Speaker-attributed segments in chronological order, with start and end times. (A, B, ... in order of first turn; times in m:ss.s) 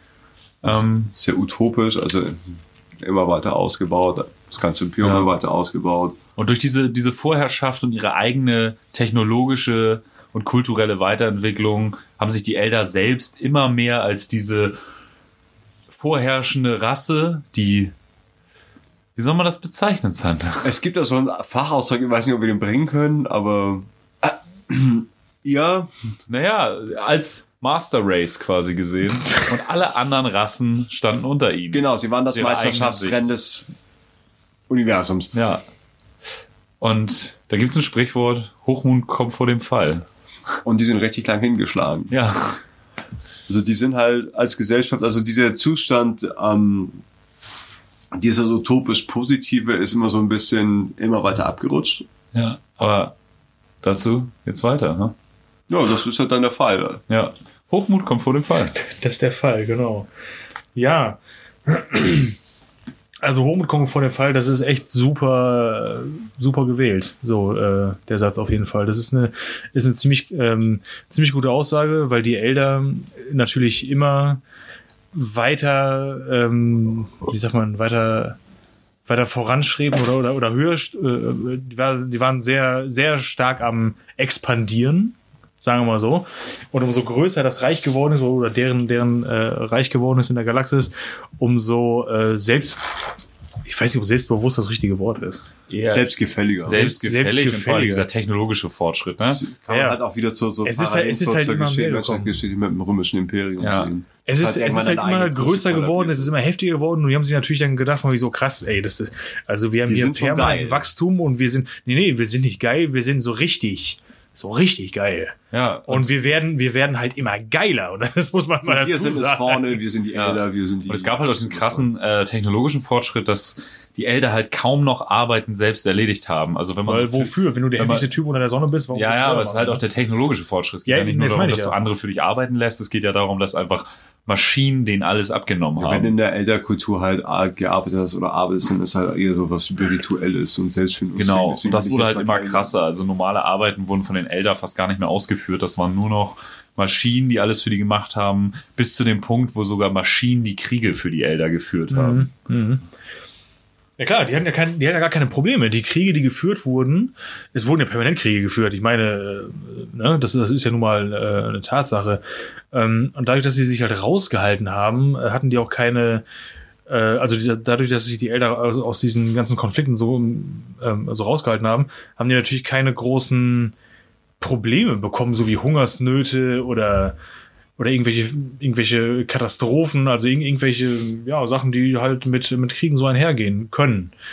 0:00.6-0:01.1 A
0:00.6-0:06.2 B
0:05.0-0:05.3 A
0:06.4-0:14.8 A
0:15.9-0:17.9 A
0:19.2-0:20.7 A
0:20.6-0:25.9 B
0:26.3-0:33.3 A
0:31.7-0:33.7 B
0:34.7-0:35.3 B
0:35.3-0:35.6 A
0:36.8-0:40.0 A
0:40.6-0:42.1 B
0:42.1-0:42.6 A
0:43.5-0:47.0 B
0:48.1-0:52.1 B
0:52.3-0:53.1 A
0:53.8-0:55.1 A
0:55.7-0:57.0 B
0:57.1-0:58.7 A
0:58.8-1:00.1 C
1:00.7-1:02.3 C
1:03.2-1:14.4 C
1:15.1-1:18.4 C
1:19.0-1:32.8 C
1:33.6-1:35.4 C
1:35.7-1:36.1 A
1:35.8-1:36.8 B
1:36.6-1:39.4 A
1:36.6-1:38.1 C
1:39.3-1:46.3 B
1:39.7-1:40.0 C
1:40.6-1:42.3 C
1:43.6-1:43.9 A
1:44.3-1:59.8 C
1:49.9-1:50.8 B
1:55.5-1:56.1 A
1:58.6-2:01.9 B
2:00.1-2:08.1 A
2:06.8-2:09.8 C
2:08.9-2:16.1 A
2:10.9-2:11.8 C
2:15.8-2:22.7 B
2:21.1-2:32.3 A
2:31.9-2:32.8 C
2:34.0-2:42.2 C
2:42.7-2:46.2 C
2:46.9-2:53.7 C
2:54.4-2:57.1 C
2:57.8-3:04.1 C